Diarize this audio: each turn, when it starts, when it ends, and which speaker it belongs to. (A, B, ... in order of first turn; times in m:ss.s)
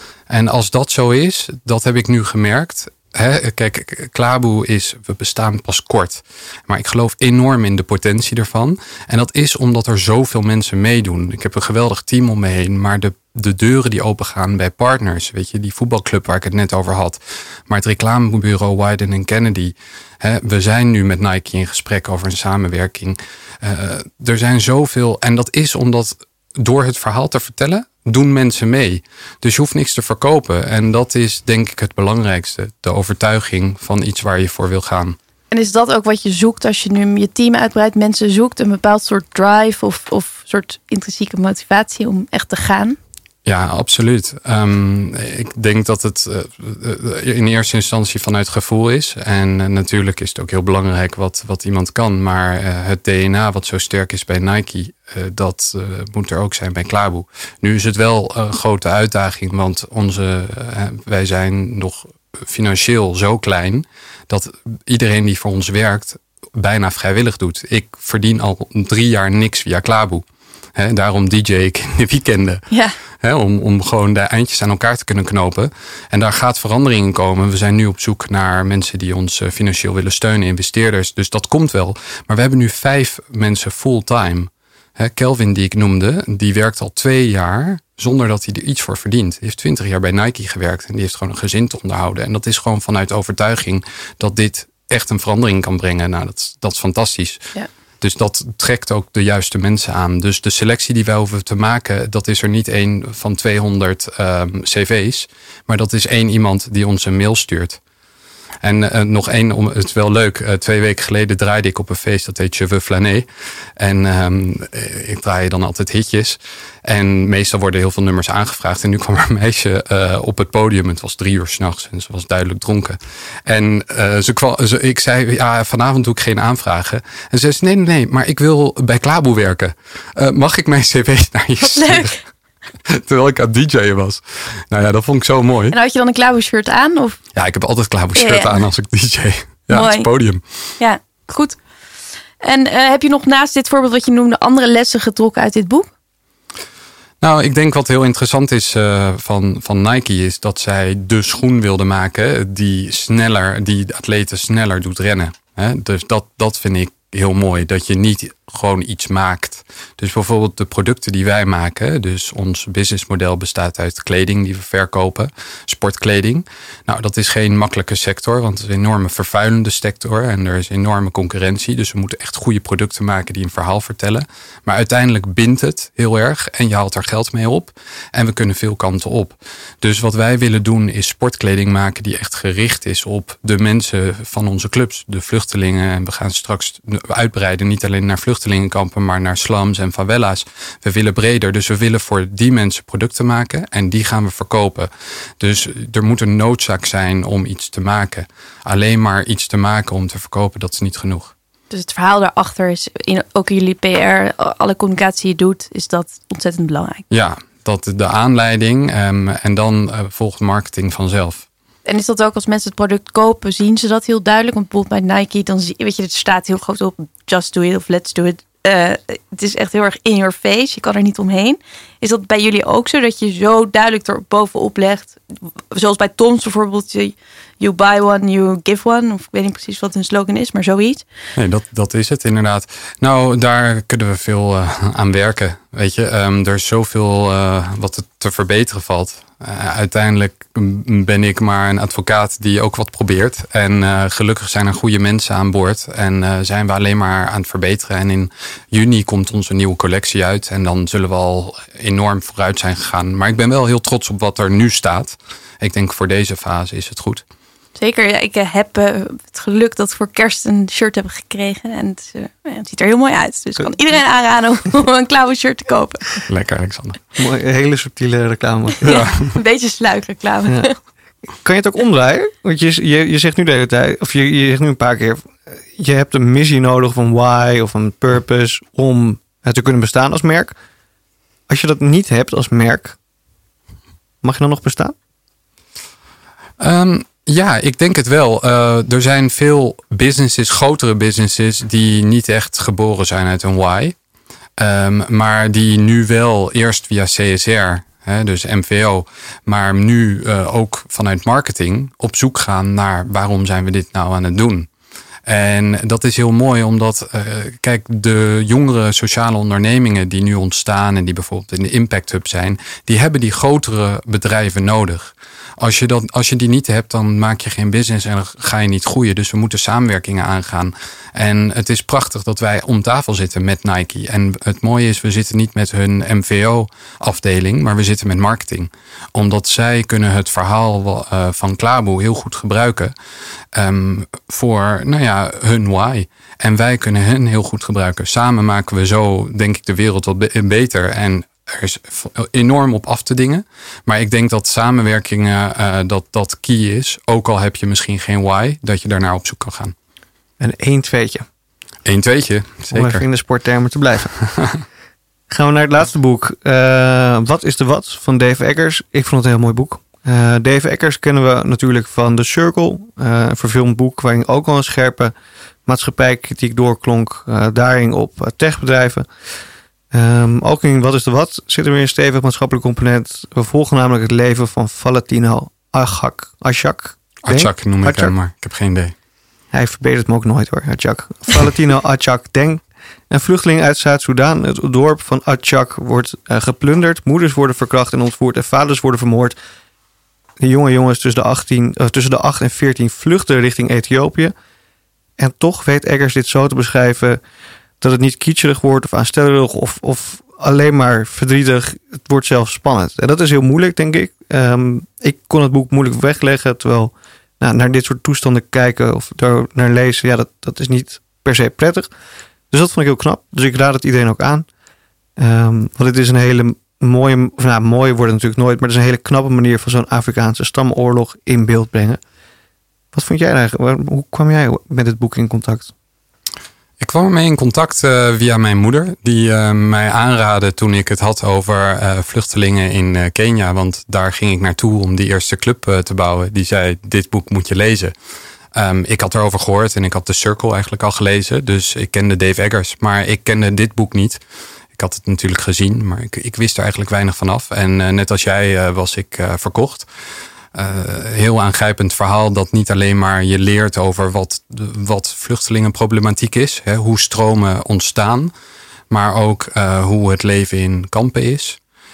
0:00.3-0:35.2 A
0:35.5-0:43.0 B
0:43.4-1:10.2 A
1:10.8-1:12.6 A
1:13.2-1:37.4 A
1:38.0-1:47.8 A
1:48.6-1:53.3 A
1:53.8-2:12.1 A
2:11.6-2:12.2 B
2:12.9-2:15.8 A
2:15.7-2:17.2 B
2:17.3-2:20.4 A
2:18.1-2:18.6 B
2:19.7-2:20.1 B
2:20.8-2:21.6 B
2:22.4-2:25.9 B
2:27.2-3:21.3 A
3:21.7-3:27.0 B
3:27.1-3:31.4 A
3:31.8-3:45.2 B
3:45.7-3:51.0 B
3:51.4-4:17.2 A
4:17.8-4:26.2 B
4:26.3-4:27.0 A
4:27.2-4:29.0 C
4:28.8-4:29.3 A
4:28.8-4:30.7 B
4:31.4-4:40.5 C
4:41.5-4:43.0 C
4:44.2-4:44.9 C
4:46.6-4:53.9 A
4:54.6-5:04.7 A
5:05.3-5:32.9 A
5:33.5-5:49.7 A
5:50.4-5:51.2 C
5:51.8-5:53.0 A
5:52.7-5:54.2 C
5:55.3-6:05.1 C
6:05.6-6:09.1 C
6:09.9-6:18.1 C
6:17.2-6:18.9 A
6:19.5-6:29.4 C
6:30.4-6:34.3 C
6:35.2-6:37.2 C
6:37.8-6:51.9 C
6:52.5-6:54.4 C
6:55.2-7:02.0 C
7:02.9-7:05.7 C
7:06.8-7:17.9 A
7:18.5-7:24.2 A
7:24.7-7:29.8 A
7:30.5-7:38.3 A
7:38.9-7:41.6 A